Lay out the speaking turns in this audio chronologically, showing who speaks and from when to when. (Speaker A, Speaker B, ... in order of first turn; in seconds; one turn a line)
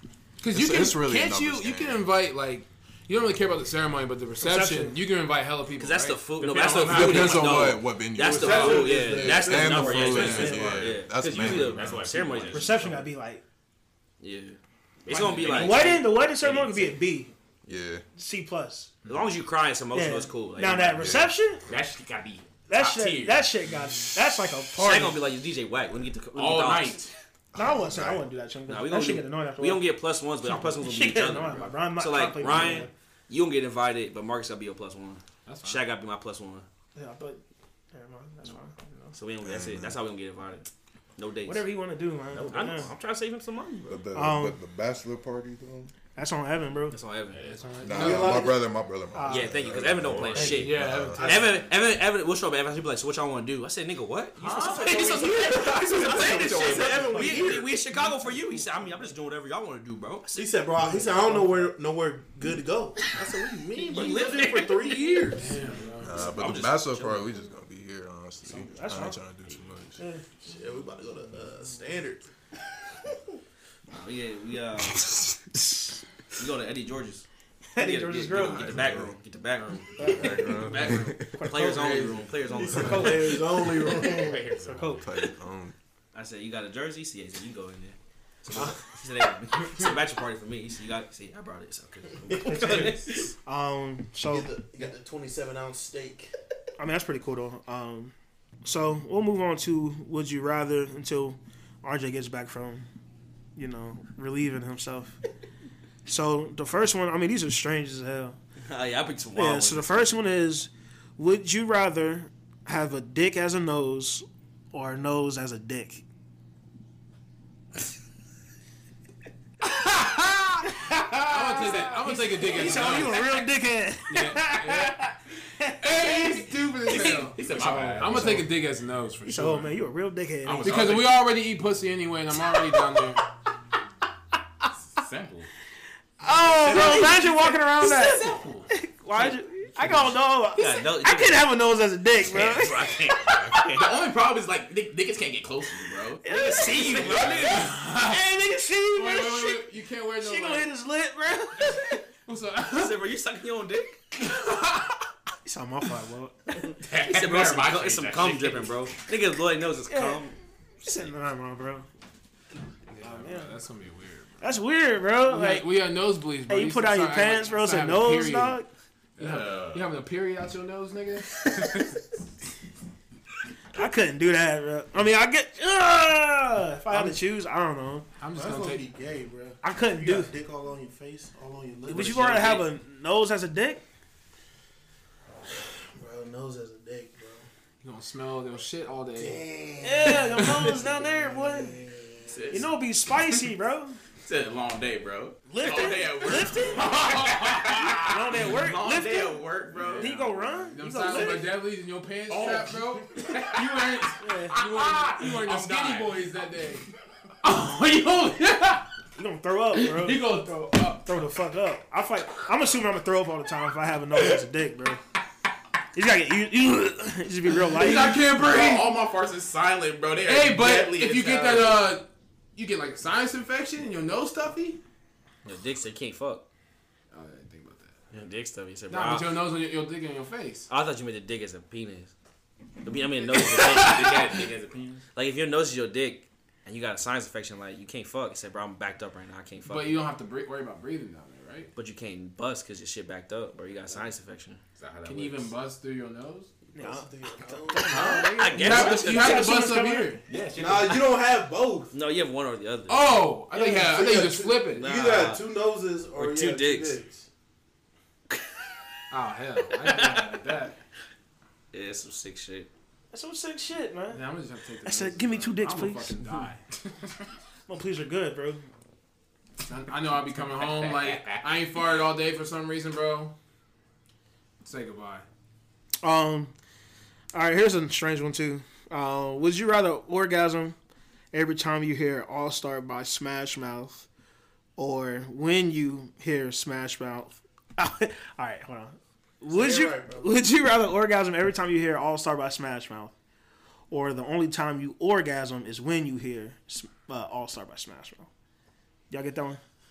Speaker A: 0.4-6.3
Speaker B: 0.5-2.1
Speaker C: 4.4-5.0
Speaker D: 5.8-12.8
Speaker E: 6.4-7.8
Speaker B: 6.8-12.3
Speaker F: 8.2-11.0
Speaker E: 11.2-13.1
Speaker C: 12.5-13.4
Speaker D: 14.2-16.9
Speaker E: 15.0-16.8
Speaker C: 15.4-17.3
Speaker B: 17.6-18.0
Speaker C: 18.1-18.9
Speaker D: 19.1-21.2
Speaker C: 19.9-21.6
Speaker B: 21.0-21.3
Speaker E: 21.6-23.5
Speaker C: 22.7-25.2
Speaker D: 24.8-27.0
Speaker E: 26.3-27.1
Speaker B: 27.5-28.3
Speaker C: 27.5-29.9
Speaker D: 28.7-36.6
Speaker C: 30.4-32.9
Speaker A: 35.5-35.8
Speaker C: 36.9-39.1
Speaker D: 39.1-41.7
Speaker B: 39.4-40.0
Speaker C: 41.4-42.9
Speaker E: 42.3-42.9
Speaker D: 42.5-44.0
Speaker B: 43.9-45.9
Speaker C: 44.1-44.6
Speaker C: 46.1-47.0
Speaker D: 46.9-47.4
Speaker E: 47.3-48.2
Speaker A: 47.4-48.5
Speaker B: 47.8-51.4
Speaker F: 47.9-48.6
Speaker C: 48.1-48.5
Speaker C: 49.1-49.7
Speaker D: 49.3-60.5
Speaker E: 50.2-50.5
Speaker A: 50.5-51.6
Speaker F: 51.1-51.5
Speaker E: 54.4-57.4
Speaker F: 54.6-57.7
Speaker C: 56.1-57.6
Speaker C: 58.1-58.9
Speaker F: 60.3-65.6
Speaker C: 60.8-61.7
Speaker D: 63.8-65.3
Speaker A: 65.3-66.3
Speaker B: 66.0-70.0
Speaker D: 66.1-67.3
Speaker C: 68.4-69.2
Speaker C: 70.0-70.4
Speaker F: 70.4-72.3
Speaker D: 73.9-75.1
Speaker D: 76.3-77.2
Speaker C: 77.7-78.8
Speaker D: 77.8-83.4
Speaker B: 78.3-79.1
Speaker C: 80.0-85.0
Speaker B: 80.1-81.3
Speaker F: 82.5-84.4
Speaker E: 83.8-85.1
Speaker B: 85.0-85.7
Speaker D: 86.1-93.3
Speaker F: 92.3-93.0
Speaker C: 92.5-94.5
Speaker F: 94.3-96.3
Speaker C: 96.8-102.9
Speaker C: 103.5-105.2
Speaker C: 106.0-108.4
Speaker D: 108.6-110.1
Speaker C: 109.3-116.0
Speaker A: 119.8-120.6
Speaker C: 120.6-126.3
Speaker A: 121.3-123.4
Speaker A: 124.1-125.0
Speaker A: 125.8-129.8
Speaker E: 126.9-128.5
Speaker C: 128.0-128.4
Speaker C: 129.2-130.9
Speaker E: 130.4-131.3
Speaker A: 130.6-133.2
Speaker E: 134.9-135.5
Speaker C: 136.2-143.6
Speaker E: 136.6-138.7
Speaker D: 136.7-137.1
Speaker D: 140.5-141.5
Speaker D: 142.2-143.9
Speaker E: 142.6-147.7
Speaker C: 146.2-152.0
Speaker D: 146.2-147.8
Speaker A: 147.4-148.2
Speaker A: 148.9-150.7
Speaker A: 152.2-153.0
Speaker D: 152.7-154.0
Speaker A: 154.2-155.0
Speaker C: 155.4-156.6
Speaker E: 156.8-158.8
Speaker D: 156.9-160.3
Speaker C: 159.9-160.2
Speaker C: 160.8-161.9
Speaker A: 162.9-164.5
Speaker C: 163.0-163.5
Speaker C: 164.4-165.8
Speaker A: 165.2-168.6
Speaker C: 166.5-168.7
Speaker E: 169.2-169.9
Speaker A: 169.2-171.4
Speaker C: 173.7-178.1
Speaker A: 176.9-177.2
Speaker A: 178.2-178.8
Speaker F: 178.3-182.6
Speaker C: 179.6-180.3
Speaker C: 181.9-183.8
Speaker D: 182.0-182.6
Speaker F: 185.6-187.5
Speaker A: 187.8-189.4
Speaker F: 189.2-192.4
Speaker C: 189.8-191.8
Speaker A: 190.4-190.7
Speaker E: 192.3-192.7
Speaker C: 192.5-194.0
Speaker E: 194.2-201.3
Speaker C: 195.5-197.2
Speaker A: 196.8-198.0
Speaker C: 197.7-201.6
Speaker A: 199.8-200.1
Speaker A: 200.7-206.8
Speaker E: 202.3-206.2
Speaker C: 204.2-204.6
Speaker A: 207.4-208.9
Speaker C: 209.2-210.3
Speaker A: 209.8-211.1
Speaker C: 211.0-215.0
Speaker C: 215.9-218.2
Speaker A: 217.7-219.0
Speaker E: 217.8-221.8
Speaker A: 220.2-224.8
Speaker D: 225.4-226.4
Speaker A: 227.1-227.9
Speaker D: 228.1-229.4
Speaker A: 228.9-230.7
Speaker D: 230.7-232.1
Speaker D: 232.8-234.5
Speaker E: 233.4-235.0
Speaker D: 235.1-240.0
Speaker A: 239.6-241.7
Speaker D: 241.7-244.6
Speaker E: 244.8-245.5
Speaker A: 245.0-246.5
Speaker C: 246.7-250.2
Speaker F: 246.7-248.2
Speaker A: 247.9-250.2
Speaker D: 248.2-249.6
Speaker E: 250.2-251.1
Speaker F: 250.5-251.9
Speaker D: 251.9-253.1
Speaker A: 252.9-254.9
Speaker F: 253.5-257.3
Speaker D: 254.8-255.4
Speaker D: 256.1-257.0
Speaker A: 259.1-260.8
Speaker D: 259.7-260.4
Speaker D: 261.7-262.7
Speaker C: 263.1-264.2
Speaker A: 264.1-267.0
Speaker C: 264.8-266.3
Speaker C: 267.7-268.6
Speaker A: 269.6-273.3
Speaker E: 270.4-271.6
Speaker A: 274.6-275.2
Speaker C: 276.0-276.5
Speaker C: 277.3-280.8
Speaker C: 281.3-284.1
Speaker C: 284.8-293.1
Speaker F: 289.5-290.3
Speaker C: 293.9-298.3
Speaker C: 299.1-299.6